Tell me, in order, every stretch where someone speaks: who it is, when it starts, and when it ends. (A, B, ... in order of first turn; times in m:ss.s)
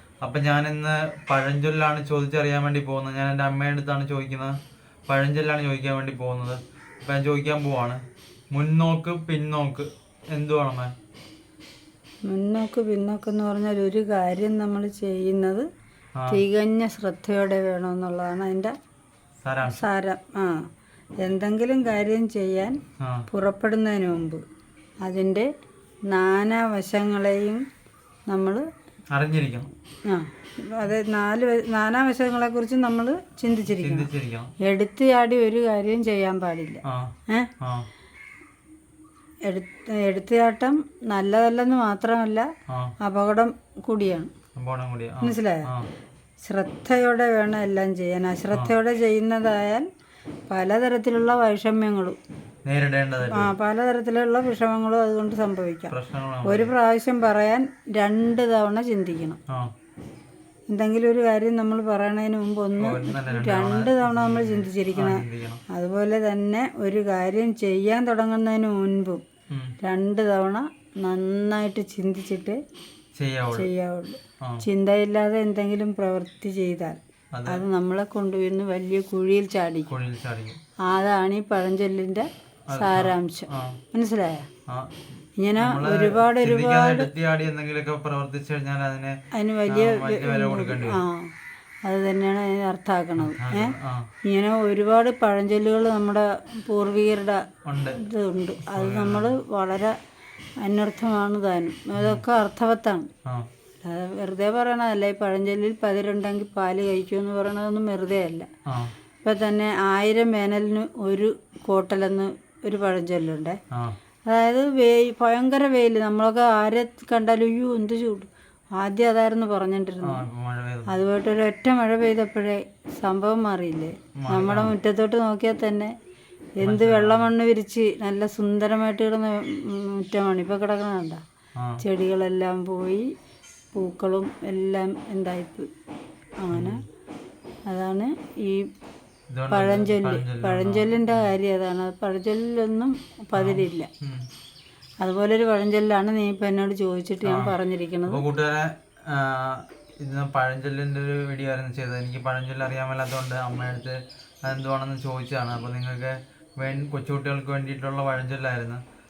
0:00.2-0:04.6 A
0:05.1-0:10.9 A
0:12.3-0:15.7 B
0:16.2-0:16.4 A
0:16.3-0:18.7 B
0:19.4-0:19.9 A
0:19.7-0:20.7 B
0:21.2-0:22.8 B
0:23.0-0:23.3 A
0:23.3-0:24.4 B
0:25.0-0:25.5 B
0:26.1-0:27.6 B
0:28.3-0:28.6 B
0:29.1-0:29.7 A
0:30.1-0:34.1 B
0:33.7-0:34.5 A
0:34.6-0:37.5 B
0:36.8-0:37.9 A
0:39.5-0:42.5 B
0:42.7-0:43.0 A
0:43.0-0:44.3 B
0:44.6-0:45.9 A
0:45.2-0:45.7 B
0:46.4-0:49.9 B
0:50.5-0:52.2 B
0:52.7-0:53.5 A
0:53.3-0:55.9 B
0:55.9-0:56.7 A
0:56.4-0:59.4 B
1:00.7-1:09.2 B
1:02.8-1:05.6 A
1:09.5-1:09.8 A
1:09.8-1:12.6 B
1:13.2-1:13.7 A
1:13.5-1:19.9 B
1:17.3-1:17.6 A
1:19.9-1:20.6 A
1:20.9-1:24.5 B
1:22.7-1:23.8 A
1:24.7-1:25.0 A
1:25.4-1:27.1 B
1:25.6-1:31.0 A
1:29.3-1:31.3 B
1:31.8-1:40.0 B
1:33.2-1:34.1 A
1:37.6-1:38.0 A
1:38.6-1:39.4 A
1:40.6-1:43.1 B
1:42.0-1:42.2 A
1:43.8-1:48.5 B
1:48.7-1:48.9 A
1:49.2-1:53.6 B
1:53.7-1:54.0 A
1:54.3-2:00.2 B
2:00.0-2:01.0 A
2:00.9-2:05.9 B
2:04.2-2:04.7 A
2:06.6-2:11.2 B
2:06.6-2:07.3 A
2:11.6-2:11.8 A
2:11.8-2:13.1 B
2:13.7-2:15.7 B
2:16.4-2:16.8 B
2:16.5-2:16.8 A
2:17.7-2:18.7 B
2:19.3-2:21.3 A
2:19.5-2:23.9 B
2:23.4-2:24.3 A
2:25.0-2:28.2 B
2:27.2-2:27.6 A
2:28.1-2:38.8 A